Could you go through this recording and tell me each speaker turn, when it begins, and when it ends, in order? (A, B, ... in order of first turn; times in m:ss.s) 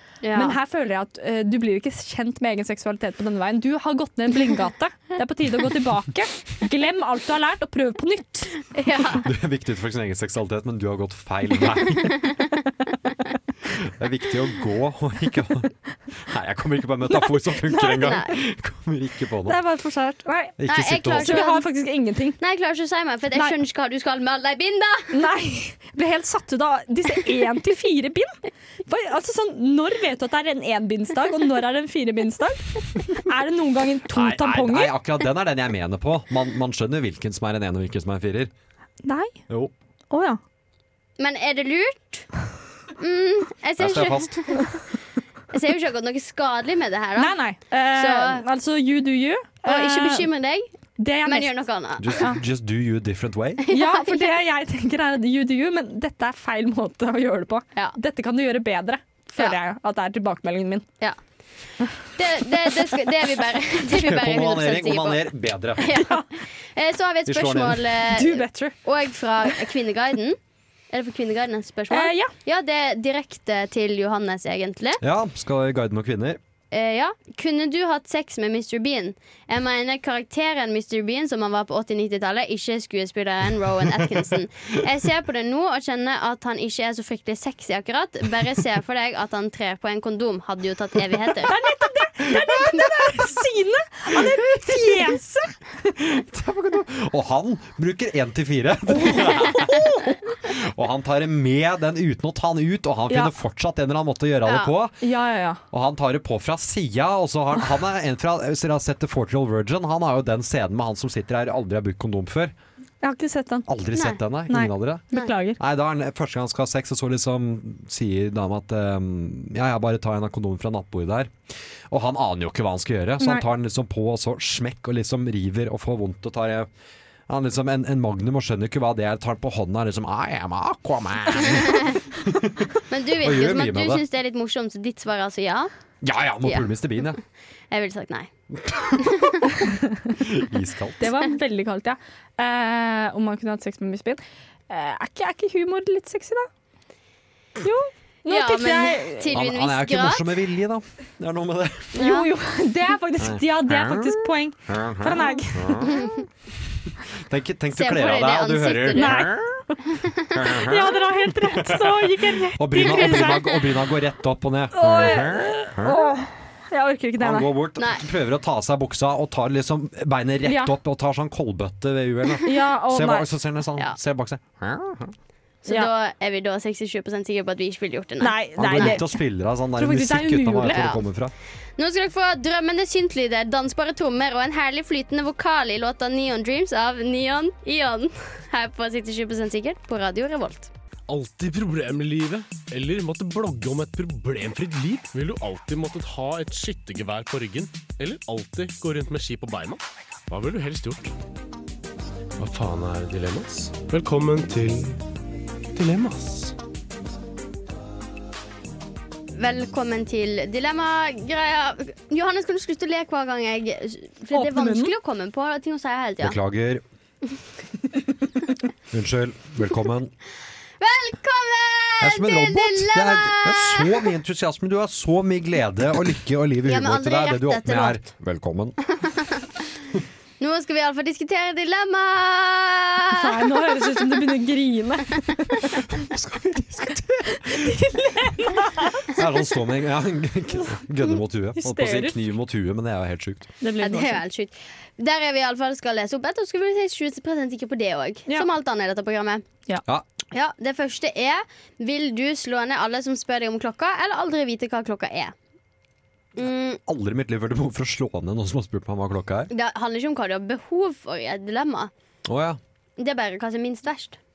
0:00.2-0:00.6 A
0:00.3-0:08.6 B
0:08.7-0:09.2 A
0:09.2-0:12.2 C
0:12.0-0:12.6 A
0:13.6-0:19.6 C
0:17.3-0:18.2 B
0:18.0-0:18.3 A
0:19.5-0:22.4 B
0:20.6-0:21.5 C
0:20.7-0:21.7 A
0:22.4-0:25.2 A
0:25.1-0:28.3 B
0:28.9-0:35.0 B
0:34.1-0:38.5 C
0:39.0-0:39.4 B
0:40.1-0:40.4 B
0:41.2-0:42.3 A
0:43.0-0:44.9 A
0:43.8-0:44.4 C
0:45.5-0:47.4 A
0:47.2-0:50.3 B
0:47.9-0:48.4 A
0:49.6-0:50.7 A
0:51.0-0:51.6 B
0:51.2-0:52.1 A
0:52.0-0:53.6 C
0:53.6-0:54.3 A
0:53.7-1:00.9 B
1:02.1-1:05.2 A
1:03.9-1:05.9 C
1:05.8-1:10.4 A
1:05.9-1:06.3 B
1:07.3-1:07.8 C
1:08.1-1:08.8 B
1:10.9-1:15.0 A
1:11.9-1:12.3 B
1:15.0-1:16.4 C
1:16.7-1:31.5 A
1:31.4-1:35.7 B
1:32.3-1:32.9 C
1:34.2-1:35.1 C
1:36.0-1:45.0 C
1:39.0-1:39.9 B
1:44.5-1:44.7 A
1:45.0-1:45.6 B
1:45.7-1:52.5 C
1:53.0-1:53.7 B
1:53.7-2:01.3 C
1:54.0-1:54.2 A
1:54.5-1:55.6 B
2:01.9-2:06.7 C
2:03.2-2:03.5 B
2:07.3-2:14.0 C
2:11.5-2:12.0 A
2:12.9-2:15.7 A
2:16.0-2:17.2 C
2:17.7-2:18.3 A
2:18.6-2:19.4 C
2:19.0-2:19.5 A
2:19.8-2:20.2 B
2:20.2-2:21.1 C
2:21.0-2:26.5 B
2:27.6-2:29.3 B
2:28.3-2:30.3 A
2:29.3-2:32.0 C
2:32.0-2:32.3 A
2:32.0-2:35.9 B
2:33.2-2:36.1 C
2:35.8-2:36.2 A
2:36.7-2:39.6 C
2:37.7-2:39.2 A
2:38.9-2:39.8 B
2:40.3-2:46.2 C
2:40.4-2:43.7 B
2:44.7-2:47.5 B
2:47.2-2:55.1 C
2:47.8-2:48.0 A
2:50.5-2:50.8 B
2:52.4-2:53.3 B
2:55.7-2:59.0 A
2:58.2-2:59.2 B
2:58.6-3:01.3 C
2:59.8-3:00.9 B
3:00.7-3:01.0 A
3:01.8-3:10.7 A
3:11.1-3:21.1 D
3:22.4-3:25.0 D
3:25.7-3:26.6 D
3:29.4-3:36.4 A
3:34.3-3:34.9 B
3:36.2-3:36.8 C
3:38.9-3:40.1 C
3:40.8-3:44.1 A
3:42.0-3:48.8 C
3:46.6-3:48.1 A
3:49.0-3:49.5 A
3:50.4-3:53.3 A
3:53.2-3:55.8 B
3:55.9-3:57.8 C
3:57.3-3:59.2 B
3:59.1-4:03.5 C
4:01.6-4:02.2 B
4:03.6-4:04.2 B
4:03.8-4:09.4 A
4:10.3-4:15.4 A
4:16.4-4:16.8 A
4:16.8-4:19.5 C
4:19.5-4:21.9 A
4:22.3-4:22.6 C
4:23.0-4:24.2 A